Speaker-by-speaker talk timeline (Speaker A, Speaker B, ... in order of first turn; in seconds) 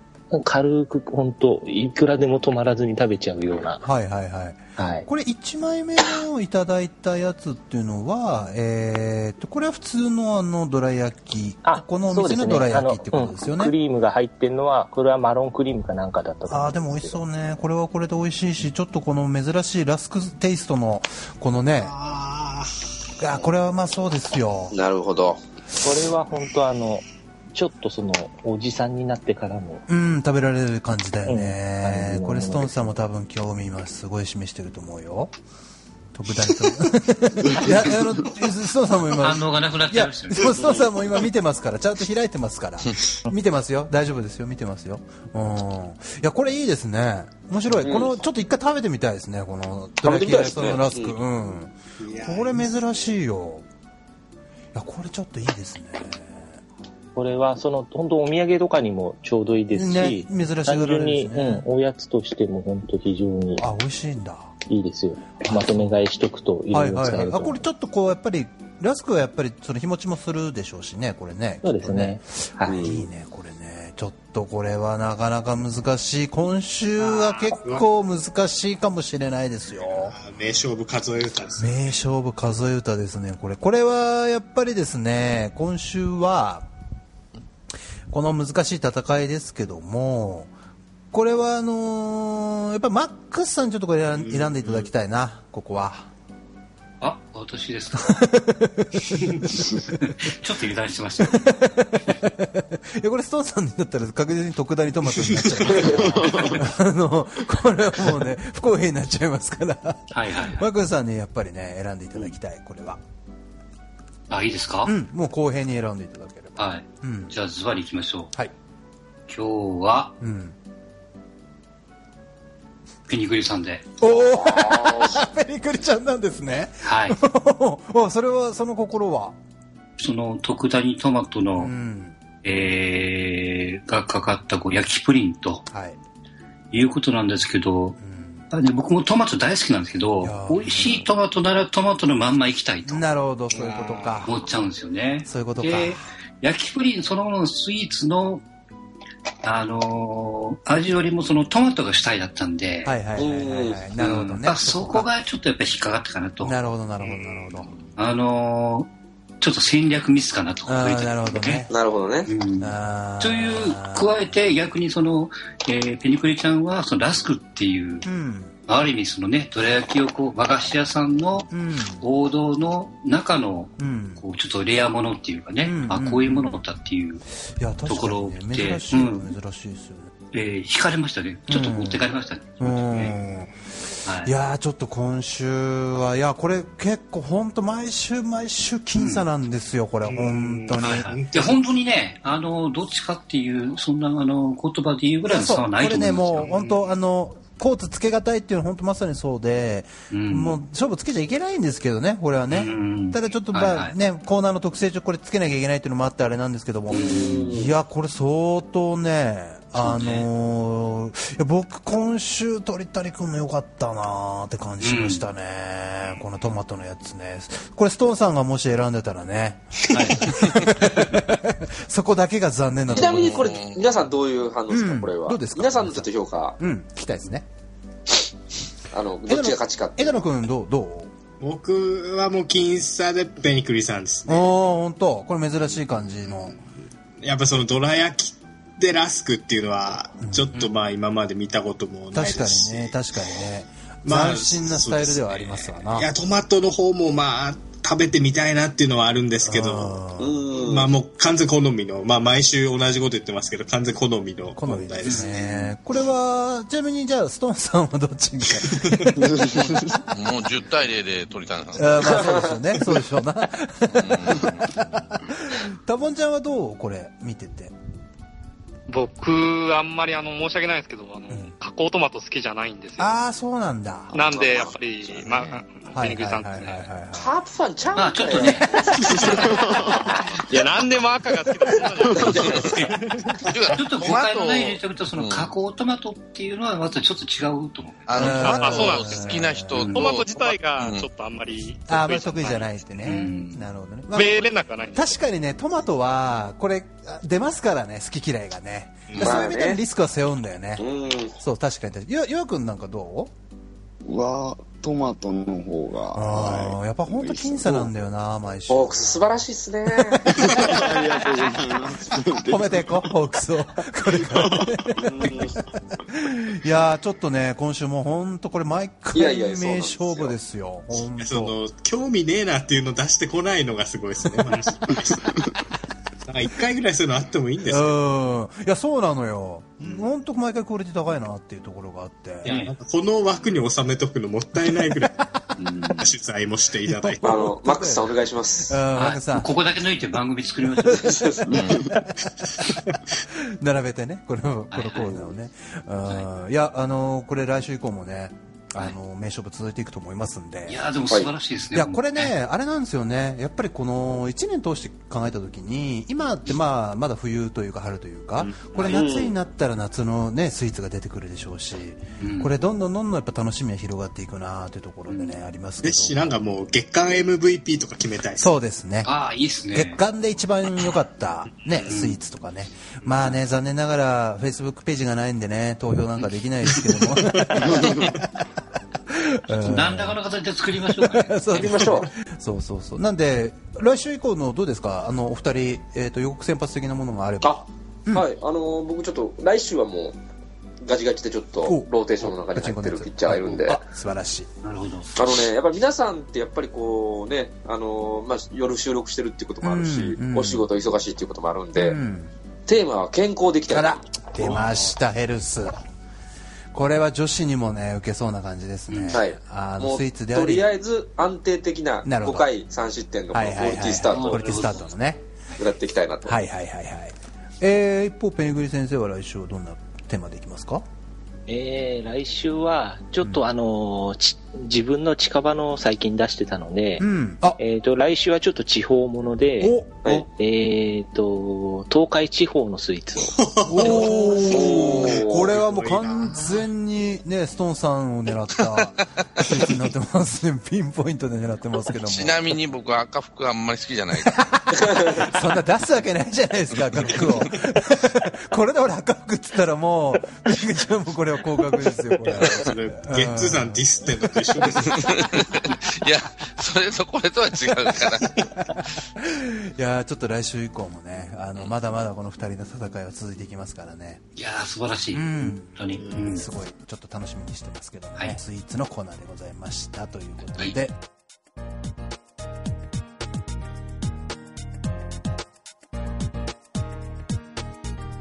Speaker A: 0.3-3.8, 4.8-5.1, 11.7-17.2, 25.8-29.9, 31.2-33.0, 57.1-63.7, 64.7-67.6, 71.6-72.9, 421.5-433.4
Speaker B: 3.8-13.7, 16.5-22.0, 23.2-24.8, 29.9-35.3, 36.1-53.6, 54.7-56.6, 59.7-61.6, 63.6-64.5, 65.5-66.0, 66.7-80.2, 81.6-86.7, 88.1-90.5, 91.1-96.1, 98.2-99.4, 101.3-113.0, 114.8-117.3, 120.2-120.5, 124.0-129.4, 131.6-132.2, 135.7-136.0, 138.0-138.5, 140.2-141.1, 142.9-144.3, 145.3-146.0, 152.8-155.1, 156.4-157.7, 160.7-161.7, 162.6-164.4, 168.1-168.5, 171.5-172.0, 173.8-174.2, 175.6-176.6, 177.6-180.1, 181.5-182.1, 182.6-183.5, 184.2-191.1, 195.3-223.5, 224.7-227.5, 229.3-231.1, 234.3-236.6, 240.2-240.6, 242.1-246.1, 249.4-250.4, 254.6-259.4, 261.7-267.7, 271.3-271.6, 273.0-274.2, 275.9-277.4, 288.2-289.9, 291.9-300.9, 301.4-303.3, 306.1-309.4, 312.4-315.5, 316.1-321.6, 327.7-332.6, 336.9-339.5, 341.9-342.2, 343.3-350.8, 351.7-366.2, 368.4-369.1, 369.7-378.2, 379.1-380.2, 380.9-388.3, 391.6-394.5, 399.6-400.7, 401.8-402.3, 403.7-405.8, 406.7-410.7, 412.1-412.5, 413.3-415.2, 416.2-420.9, 427.0-427.6, 429.6-429.9, 433.7-442.5, 444.2-453.8, 458.6-464.2, 465.1-471.0
Speaker C: 21.8-22.7, 52.0-52.7, 77.5-77.9, 80.0-81.8, 94.2-94.9, 143.9-144.2, 190.0-191.7, 196.6-196.8, 231.4-234.5, 236.3-236.6, 237.2-243.0, 244.0-255.7, 299.1-299.4, 321.2-325.4, 326.3-328.0, 329.8-330.1, 332.4-335.2, 336.0-337.4, 365.8-368.6, 433.3-436.7, 452.3-455.1
Speaker D: 24.7-25.4, 47.8-48.2, 50.0-51.2, 72.7-73.0, 124.6-125.0, 153.2-153.8, 161.7-162.3, 206.9-207.7, 222.9-226.6, 228.9-230.3, 250.2-250.9, 277.1-278.7, 299.2-299.8, 300.8-301.4, 308.7-310.4, 319.1-320.4, 337.2-338.8, 358.8-359.3, 381.5-382.1, 387.4-390.2, 390.8-393.8, 395.1-402.0, 402.7-404.0, 409.1-414.7, 415.6-416.4, 433.9-435.5
Speaker E: 39.2-40.9, 97.0-98.2, 99.5-101.6, 105.7-106.6, 110.1-110.7, 114.3-114.9, 116.6-118.3, 119.3-120.2, 123.1-123.9, 126.8-127.2, 130.0-131.7, 132.4-135.7, 136.7-138.0, 138.5-143.1, 144.2-148.4, 149.4-152.9, 154.0-156.6, 158.0-158.9, 159.4-161.7, 162.2-168.1, 168.7-177.2, 177.9-179.3, 180.3-183.2, 184.1-184.3, 188.9-189.2, 190.8-196.5, 200.1-200.6, 202.5-203.9, 206.9-207.4, 209.8-210.3, 214.8-215.2, 219.9-220.7, 255.0-255.8, 277.9-279.5, 282.6-282.9, 283.7-288.2, 289.7-290.1, 293.0-293.7, 332.4-332.7, 335.6-336.1, 338.9-341.5, 344.7-345.3, 350.7-352.3, 362.2-362.5, 365.1-365.4, 369.0-370.0, 371.8-372.2, 373.0-373.4, 379.6-381.4, 394.6-395.1, 408.9-409.2, 414.1-414.7, 464.4-466.5
Speaker F: 105.8-106.5, 304.1-307.9, 310.3-313.1, 314.3-315.5
Speaker G: 222.9-224.0, 260.1-262.5, 264.0-264.6, 274.3-274.7, 282.2-282.7, 283.4-285.5, 288.1-291.1, 442.0-444.4, 455.0-458.3
Speaker H: 268.9-273.2, 274.1-276.9, 278.9-283.3, 288.4-289.4, 290.1-292.7, 294.1-295.2